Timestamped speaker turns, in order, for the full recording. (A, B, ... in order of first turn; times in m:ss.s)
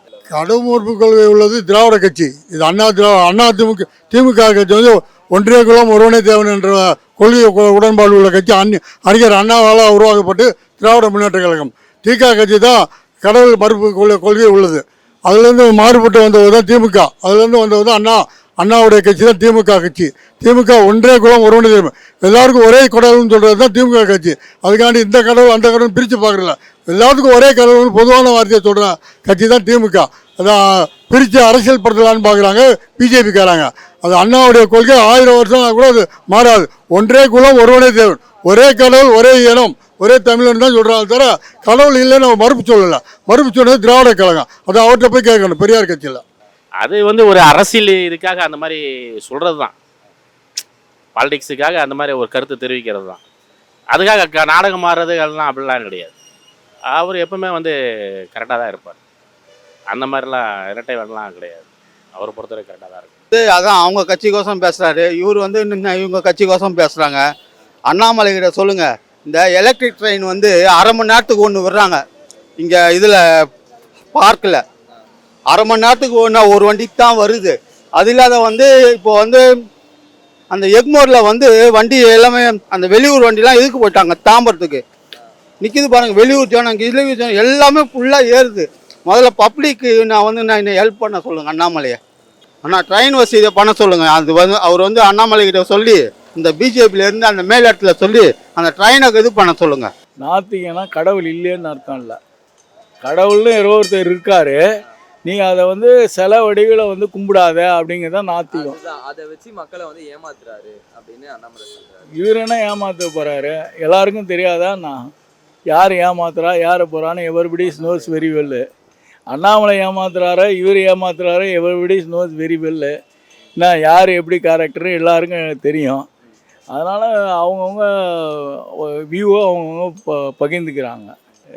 0:00.3-0:46.2 A
0:46.8-0:49.7 B
0:51.2-0:53.2 B
0:53.9-0:56.1 B
0:56.9-0:57.7 B
0:58.3-0:59.0 B
0:59.9-1:03.1 B
1:03.3-1:07.2 C
1:07.9-1:12.0 C
1:12.6-1:13.2 C
1:14.1-1:14.6 C
1:15.5-1:19.4 C
1:20.5-1:24.8 C
1:25.6-1:32.0 C
1:32.6-1:39.9 C
1:40.2-1:42.2 D
1:43.0-1:44.6 D
1:45.2-1:48.8 D
1:48.6-1:52.0 E
1:52.1-1:55.1 D
1:55.7-1:58.6 D
1:59.3-2:02.9 D
2:03.6-2:06.1 D
2:06.7-2:11.1 D